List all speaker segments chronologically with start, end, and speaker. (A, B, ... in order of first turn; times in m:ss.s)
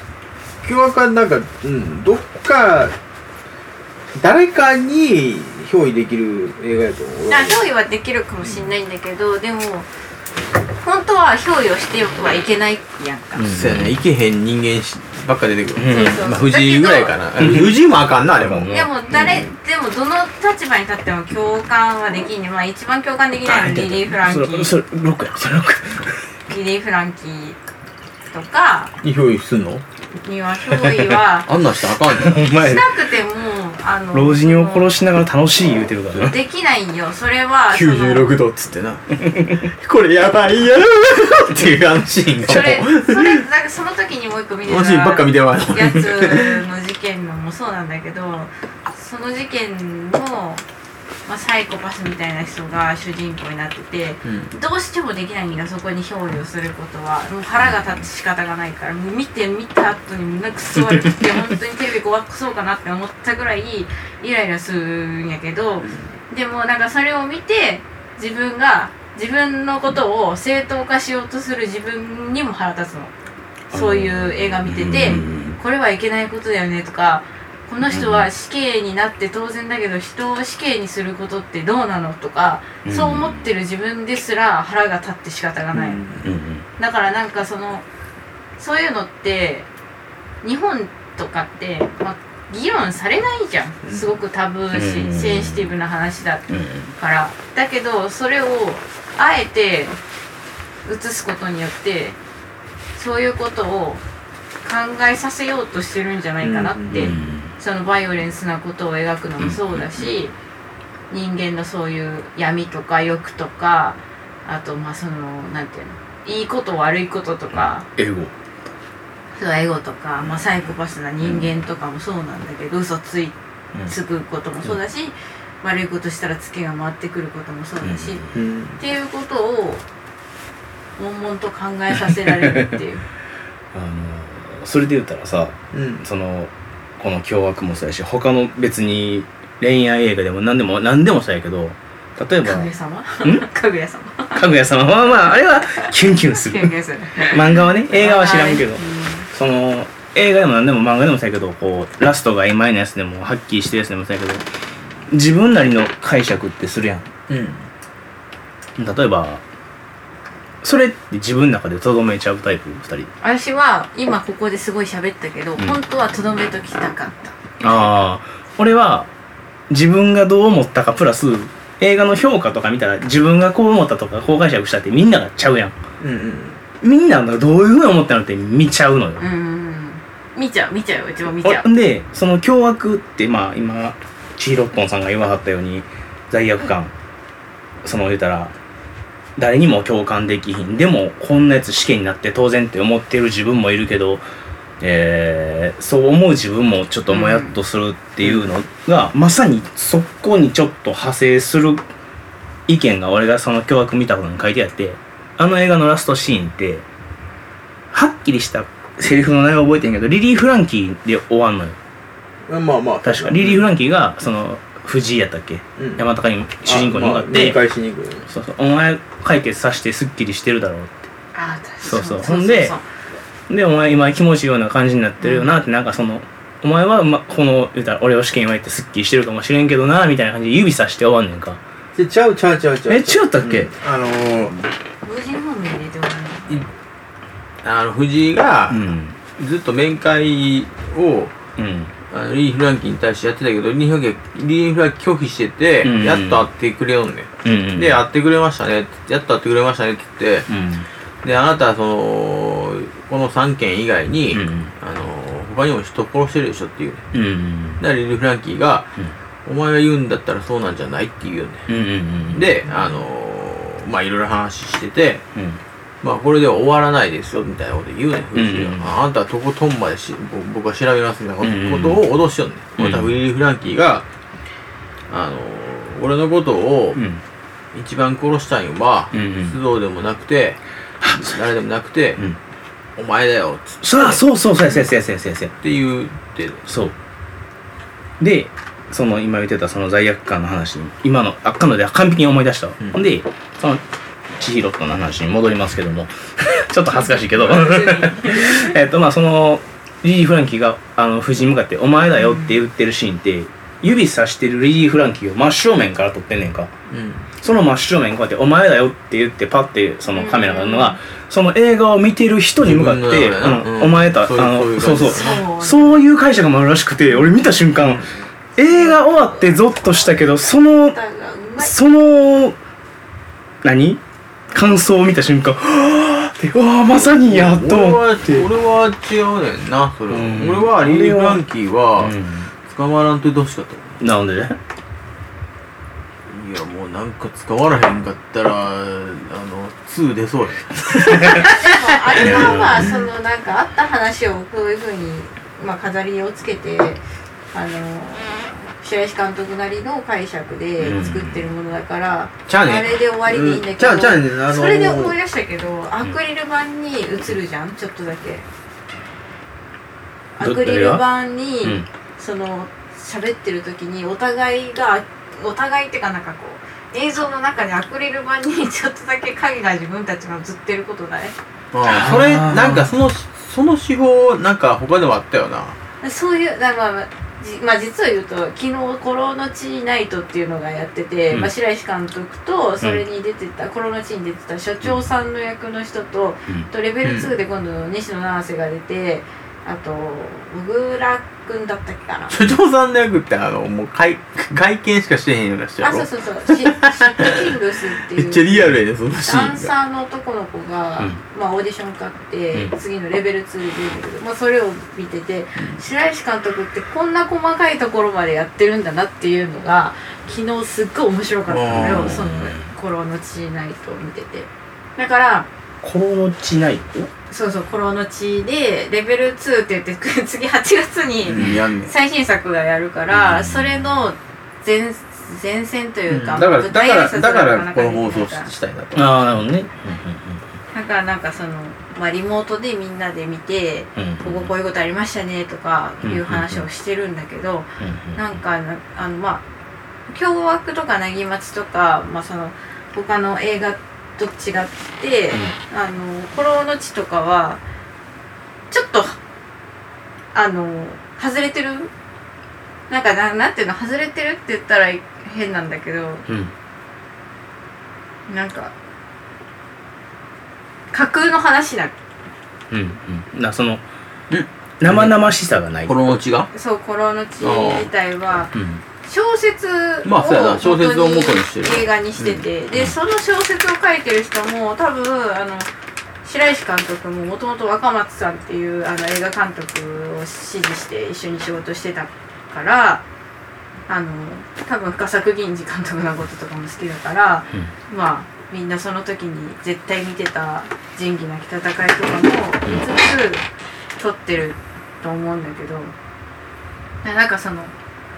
0:00.6-0:02.9 A
0:04.1-0:07.6 A
0:07.3-0:09.9 B
0:10.8-0:13.5 B
0:13.4-0:14.0 C
0:13.5-0:19.4 A
0:15.8-0:16.2 C
0:15.9-0:17.2 B
0:17.4-0:17.7 C
0:18.4-0:18.9 C
0:18.7-0:24.7 B
0:23.4-0:26.2 C
0:26.5-0:27.6 B
0:28.3-0:28.9 B
0:29.0-0:29.8 A
0:30.2-0:31.5 B
0:30.8-0:31.2 C
0:31.4-0:32.5 A
0:32.1-0:33.0 C
0:32.4-0:34.9 B
0:34.1-0:36.4 C
0:36.2-0:38.3 B
0:37.7-0:43.4 A
0:39.2-0:39.6 C
0:42.4-0:50.6 B
0:42.5-0:42.8 C
0:44.7-0:46.6 A
0:51.2-1:13.1 B
0:54.2-0:54.5 A
1:13.7-1:15.6 C
1:13.7-1:26.2 B
1:17.9-1:18.3 C
1:22.8-1:23.4 C
1:25.7-1:26.3 A
1:26.2-1:26.6 C
1:26.8-1:27.8 B
1:28.6-1:29.7 B
1:30.4-1:40.0 B
1:34.7-1:35.7 C
1:36.5-1:36.9 C
1:40.8-1:42.2 B
1:42.9-1:44.0 B
1:44.6-1:50.3 B
1:46.4-1:47.1 A
1:46.9-1:47.5 C
1:49.4-1:50.1 C
1:51.1-1:57.9 B
1:58.0-1:58.3 C
1:59.4-2:08.2 B
2:01.2-2:01.5 C
2:07.8-2:08.4 C
2:08.3-2:08.8 A
2:08.8-2:09.8 B
2:11.0-2:13.0 B
2:12.3-2:12.7 C
2:13.7-2:22.7 C
2:15.7-2:16.0 A
2:22.4-2:24.4 B
2:24.3-2:34.4 C
2:25.8-2:29.3 B
2:35.1-2:37.1 C
2:37.3-2:37.6 A
2:38.8-2:39.4 C
2:40.6-2:43.1 C
2:43.2-2:47.4 B
2:47.6-2:49.1 C
2:49.7-2:55.8 C
2:56.0-2:56.6 A
2:56.8-2:59.2 C
2:59.2-3:01.7 B
3:01.4-3:06.9 C
3:07.8-3:08.5 C
3:09.4-3:14.2 C
3:14.8-3:21.8 C
3:17.1-3:17.6 B
3:18.2-3:18.5 A
3:22.7-3:26.8 C
3:27.9-3:31.8 C
3:32.5-3:33.7 A
3:33.0-3:37.6 C
3:35.8-3:36.0 A
3:36.6-3:38.2 A
3:38.3-3:41.1 C
3:41.3-3:42.8 B
3:41.8-3:42.7 C
3:43.5-3:51.6 C
3:45.2-3:45.6 B
3:52.0-3:54.5 A
3:52.8-3:53.7 C
3:55.0-3:56.6 B
3:57.6-4:01.4 A
3:58.7-3:59.2 C
4:01.6-4:01.9 C
4:02.1-4:10.5 A
4:05.8-4:06.5 C
4:07.4-4:08.0 C
4:10.5-4:10.9 C
4:11.2-4:17.1 A
4:14.3-4:14.7 C
4:17.1-4:17.8 C
4:17.8-4:18.9 A
4:19.4-4:21.7 A
4:21.7-4:22.5 C
4:22.3-4:25.2 A
4:25.3-4:25.6 C
4:26.0-4:34.0 A
4:28.3-4:28.9 C
4:31.4-4:32.0 C
4:32.8-4:33.1 C
4:35.1-4:37.0 A
4:37.0-4:37.2 C
4:37.7-4:40.6 A
4:39.1-4:39.6 C
4:41.0-4:41.4 C
4:41.2-4:42.2 A
4:43.0-4:44.2 A
4:43.8-4:45.5 C
4:45.6-4:46.7 A
4:46.7-4:46.9 C
4:48.2-4:53.8 C
4:54.4-5:06.7 C
4:56.9-4:58.7 B
5:02.1-5:02.6 B
5:06.9-5:07.3 A
5:07.4-5:18.0 C
5:10.1-5:11.0 B
5:12.6-5:15.4 A
5:14.9-5:16.0 B
5:17.8-5:18.2 A
5:18.6-5:21.0 C
5:18.6-5:21.7 B
5:21.6-5:22.6 C
5:23.6-5:24.0 C
5:24.5-5:28.5 C
5:26.9-5:34.0 A
5:30.1-5:31.4 C
5:32.0-5:32.5 C
5:34.0-5:34.6 C
5:36.3-5:42.9 A
5:41.2-5:41.5 C
5:41.2-5:47.0 B
5:42.2-5:42.9 C
5:47.5-5:58.4 B
5:50.8-5:51.4 C
5:52.5-5:55.2 A
6:00.4-6:11.3 B
6:00.4-6:01.0 C
6:11.7-6:15.8 A
6:11.8-6:12.9 C
6:16.0-6:32.4 B
6:27.0-6:27.3 A
6:32.3-6:37.5 A
6:35.8-6:38.6 B
6:38.1-6:39.7 A
6:39.2-6:55.5 B
6:51.5-6:52.3 A
6:51.7-6:52.7 C
6:55.8-6:57.1 C
6:57.3-7:08.5 B
7:01.2-7:01.9 A
7:03.1-7:04.0 C
7:06.1-7:09.2 A
7:08.9-7:10.4 C
7:10.7-7:19.4 B
7:14.0-7:14.5 C
7:16.0-7:16.6 C
7:17.8-7:18.2 C
7:20.1-7:27.6 B
7:28.7-7:29.2 B
7:30.3-7:31.9 B
7:32.9-7:36.2 B
7:38.3-7:38.7 B
7:40.9-7:41.9 B
7:42.7-7:43.8 C
7:44.3-7:45.3 A
7:44.8-7:46.1 C
7:45.8-7:46.5 A
7:46.5-7:55.7 B
7:47.4-7:47.9 A
7:48.5-7:48.8 C
7:50.0-7:52.4 A
7:56.2-8:03.0 B
8:03.9-8:13.4 B
8:14.0-8:15.9 B
8:17.0-8:17.7 B